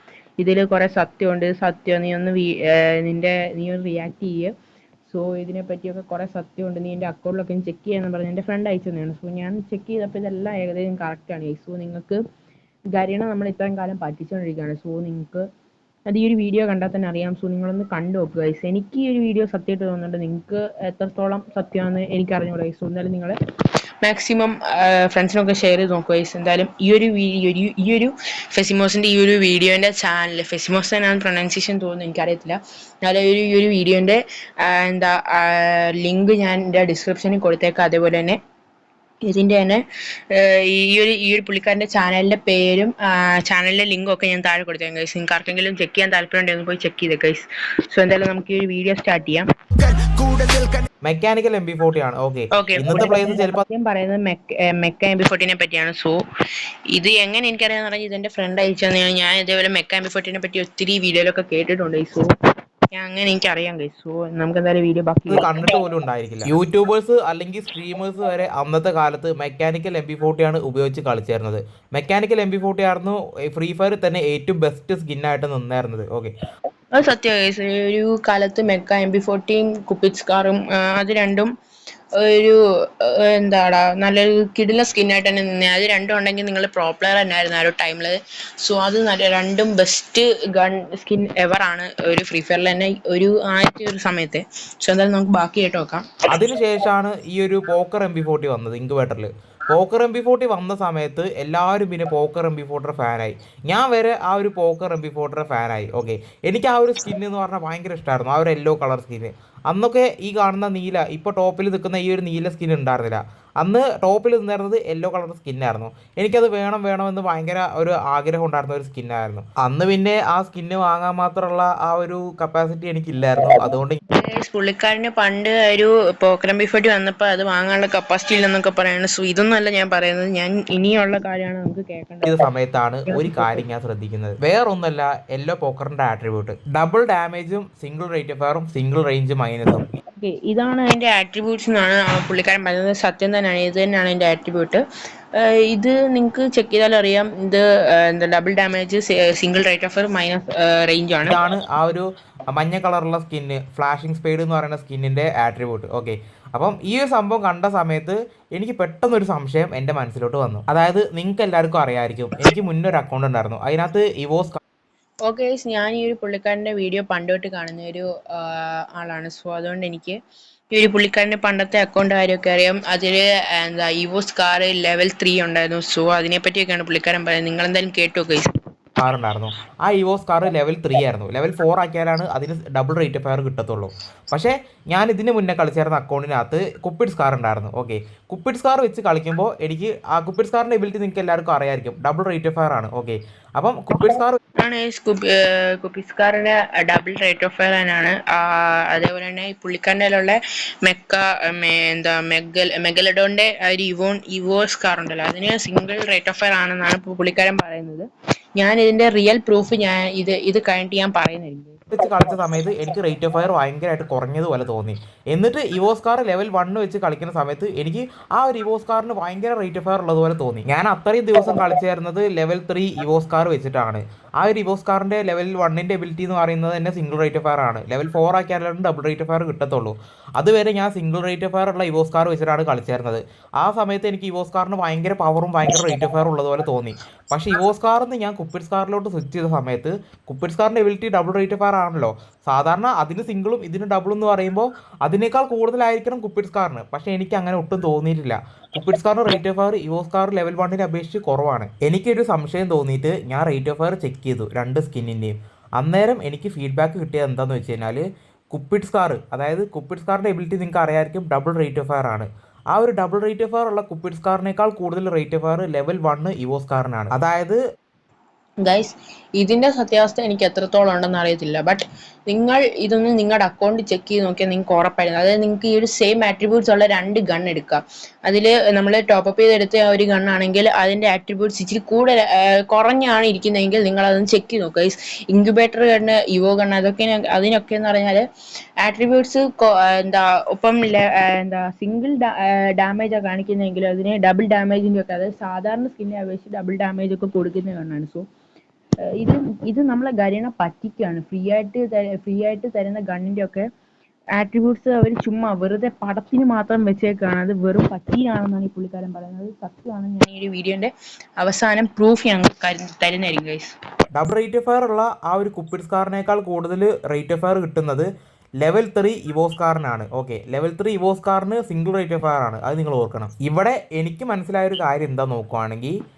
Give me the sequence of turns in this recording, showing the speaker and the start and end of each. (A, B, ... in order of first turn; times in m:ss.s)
0:00.4-0:04.5 A
0:05.1-0:12.2 A
0:12.9-0:15.4 A
0:16.1-0:23.4 A
0:24.0-0:38.4 A
0:39.2-0:50.7 A
0:51.0-0:53.6 B
0:52.5-0:56.2 A
0:56.9-1:02.3 A
1:02.9-1:05.5 A
1:05.3-1:16.3 B
1:16.9-1:21.5 A
1:22.2-1:36.0 A
1:36.3-2:04.0 B
2:04.1-2:12.4 A
2:12.2-2:19.8 B
2:13.1-2:13.6 A
2:20.1-2:24.8 A
2:25.3-2:31.3 A
2:31.2-2:44.6 B
2:45.2-2:50.2 A
2:50.7-2:58.5 A
2:59.0-3:14.4 B
3:14.6-3:28.0 A
3:28.6-3:31.8 A
3:31.9-4:27.6 B
4:28.6-4:48.2 A
4:48.8-4:58.2 A
4:59.2-5:03.6 A
5:04.3-5:13.7 A
5:14.1-5:18.1 B
5:18.6-5:25.9 B